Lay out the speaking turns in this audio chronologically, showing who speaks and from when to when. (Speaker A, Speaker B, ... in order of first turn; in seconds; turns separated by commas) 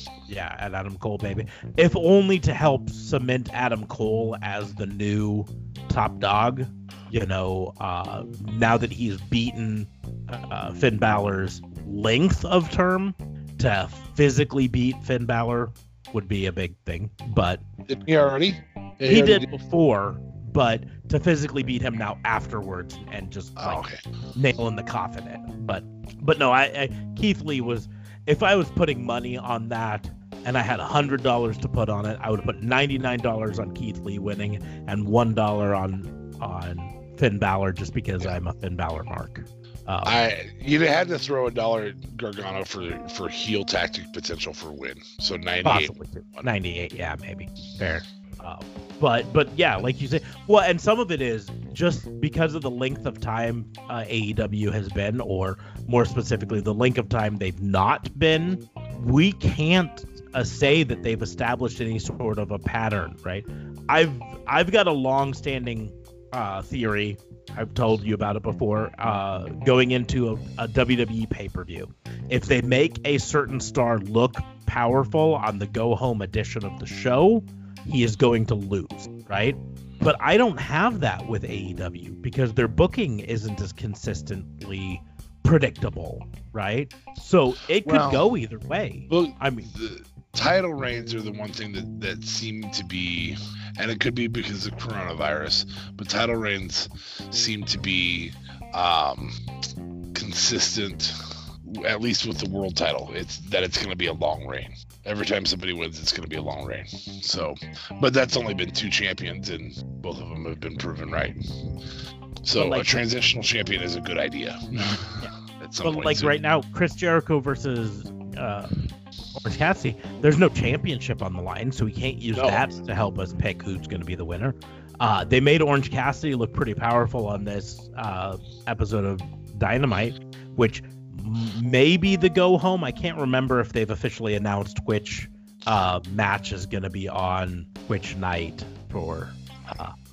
Speaker A: 0.3-17.7, Speaker B: 17.9-19.5, Speaker A: 19.1-40.1, Speaker B: 23.6-24.0, Speaker B: 40.0-46.5, Speaker A: 45.6-89.7, Speaker B: 87.8-88.2, Speaker B: 89.1-99.4, Speaker B: 100.1-111.4, Speaker B: 112.4-116.4, Speaker A: 112.5-112.9, Speaker A: 115.2-118.8, Speaker A: 119.3-139.9, Speaker B: 122.3-122.8